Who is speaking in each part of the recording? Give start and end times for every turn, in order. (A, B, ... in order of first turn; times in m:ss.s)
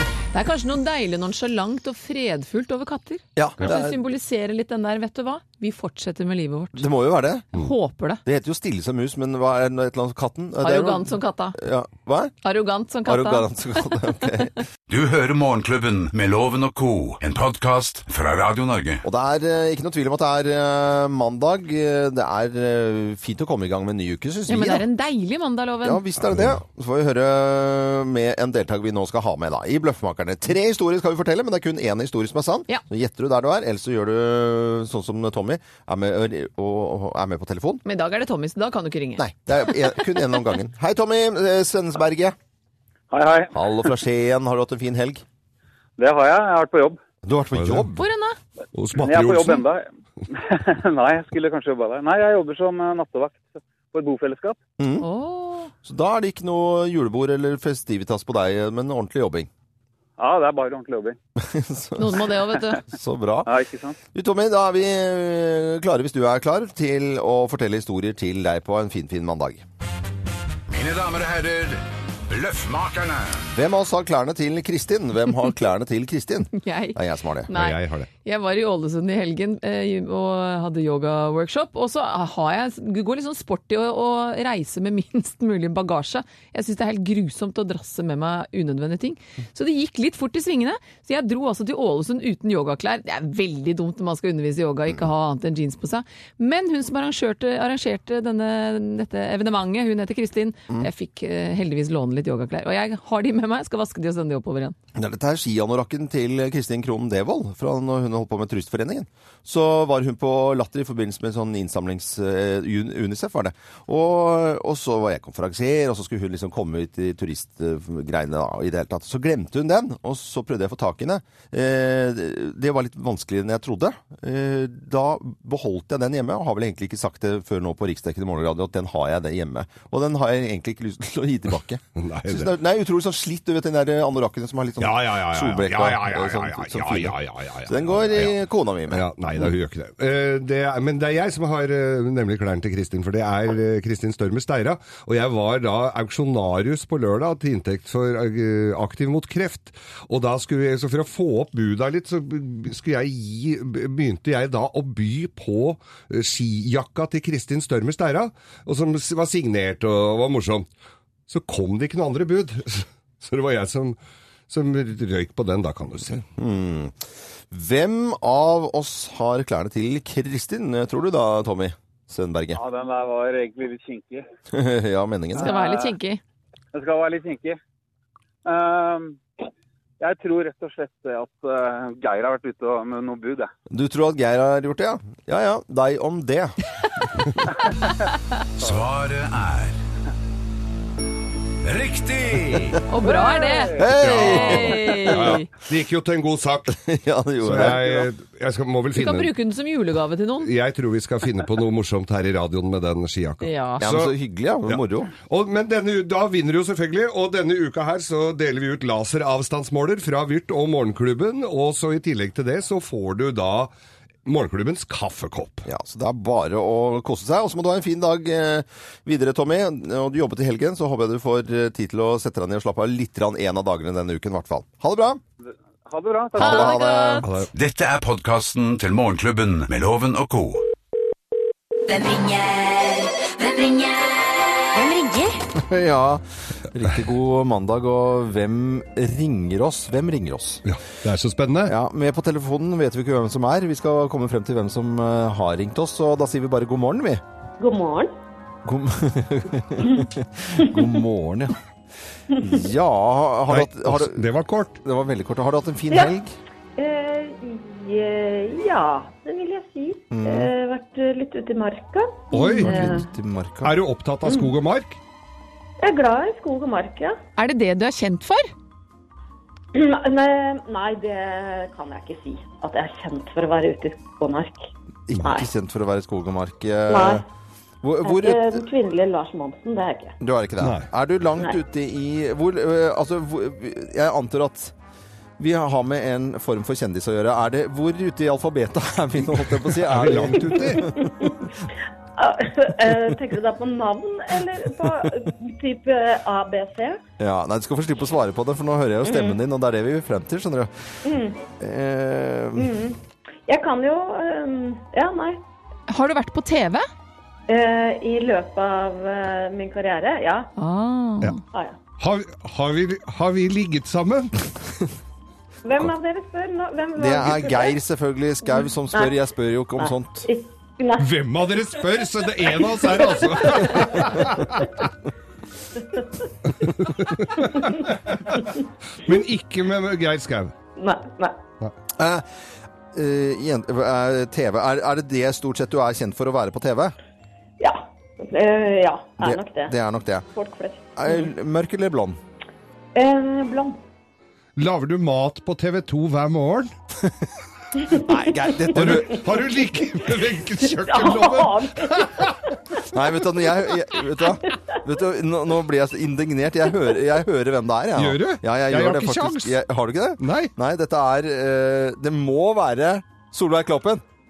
0:00.3-0:06.8 A
0:03.4-0:04.0 B
0:06.8-0:07.5 B
0:07.5-0:08.2 A
0:08.2-0:12.3 B
0:10.6-0:11.6 A
0:12.4-0:13.9 A
0:13.0-0:14.6 B
0:14.9-0:19.0 C
0:19.0-0:24.8 B
0:24.5-0:26.0 A
0:25.8-0:37.8 B
0:26.2-0:26.6 D
0:37.8-0:40.2 A
0:39.2-0:42.4 B
0:43.1-0:43.5 E
0:43.5-0:45.2 B
0:46.0-0:47.0 E
0:47.2-0:48.0 B
0:47.5-0:47.9 D
0:48.0-0:48.4 A
0:48.7-0:49.6 D
0:49.0-0:54.6 E
0:54.8-0:55.0 B
0:55.0-0:55.7 A
0:55.8-0:59.5 B
1:00.2-1:01.2 E
1:01.4-1:02.3 B
1:02.0-1:02.8 A
1:02.9-1:03.5 B
1:03.4-1:04.0 E
1:04.1-1:09.6 B
1:10.7-1:13.4 C
1:13.5-1:17.5 B
1:16.6-1:44.7 A
1:17.5-1:18.1 D
1:44.9-2:19.0 B
2:12.0-2:12.5 D
2:14.8-2:18.3 D
2:18.9-2:40.6 D
2:41.3-2:44.0 D
2:44.5-2:46.2 D
2:46.4-2:47.0 B
2:47.5-2:52.6 B
2:52.5-2:54.2 E
2:54.5-2:55.5 B
2:55.3-2:55.9 E
2:55.4-2:56.2 A
2:56.7-2:57.6 E
2:58.4-2:59.2 E
3:00.0-3:03.5 E
3:03.7-3:06.6 B
3:08.6-3:09.8 C
3:11.6-3:12.8 C
3:12.9-3:15.5 A
3:13.0-3:13.9 E
3:13.8-3:15.3 B
3:14.0-3:16.8 D
3:16.7-3:18.1 B
3:17.4-3:19.3 D
3:18.9-3:20.5 A
3:20.4-3:24.1 D
3:23.4-3:23.8 A
3:23.8-3:25.1 B
3:24.6-3:33.7 D
3:34.2-3:35.7 D
3:35.6-3:45.2 B
3:45.8-3:46.8 E
3:46.3-3:47.3 B
3:46.4-3:47.4 A
3:47.2-3:47.5 D
3:47.5-3:50.6 C
3:51.9-3:55.4 F
3:55.5-4:00.6 B
4:00.6-4:01.7 D
4:01.6-4:07.2 B
4:07.6-4:08.1 G
4:08.6-4:11.6 B
4:10.6-4:10.9 G
4:12.3-4:14.2 B
4:13.5-4:14.8 D
4:14.8-4:16.3 B
4:16.8-4:23.1 G
4:20.1-4:20.5 B
4:22.3-4:22.9 D
4:22.6-4:23.8 B
4:23.6-4:25.0 D
4:25.8-4:27.2 G
4:27.4-4:28.5 A
4:29.7-4:34.7 G
4:35.1-4:37.2 B
4:35.2-4:35.5 G
4:36.9-4:37.2 G
4:37.8-4:38.6 B
4:38.0-4:40.2 G
4:40.2-4:44.7 B
4:40.6-4:40.9 D
4:45.4-4:51.6 B
4:49.7-4:50.9 D
4:50.8-4:51.4 G
4:52.2-4:57.0 G
4:57.2-5:01.0 B
4:59.0-4:59.4 G
5:01.0-5:01.4 G
5:01.6-5:02.7 B
5:02.6-5:05.4 G
5:05.9-5:06.8 A
5:07.5-5:10.5 G
5:10.6-5:11.4 A
5:11.5-5:11.8 G
5:12.0-5:14.4 D
5:15.6-5:17.7 G
5:17.0-5:20.3 B
5:18.6-5:19.2 G
5:19.8-5:21.1 G
5:21.0-5:24.8 D
5:22.6-5:24.3 G
5:25.9-5:26.3 G
5:26.5-5:28.5 D
5:27.4-5:27.9 G
5:29.0-5:30.5 D
5:30.8-5:31.4 G
5:32.0-5:32.3 B
5:32.9-5:36.9 B
5:37.6-5:39.7 G
5:39.2-5:40.3 B
5:40.3-5:41.2 G
5:41.0-5:42.2 B
5:42.9-5:43.8 G
5:44.6-5:46.7 D
5:47.8-5:49.1 G
5:47.9-5:49.3 B
5:48.7-5:52.5 D
5:50.8-5:52.6 G
5:52.9-6:04.0 B
5:57.9-5:59.6 D
6:00.2-6:00.5 D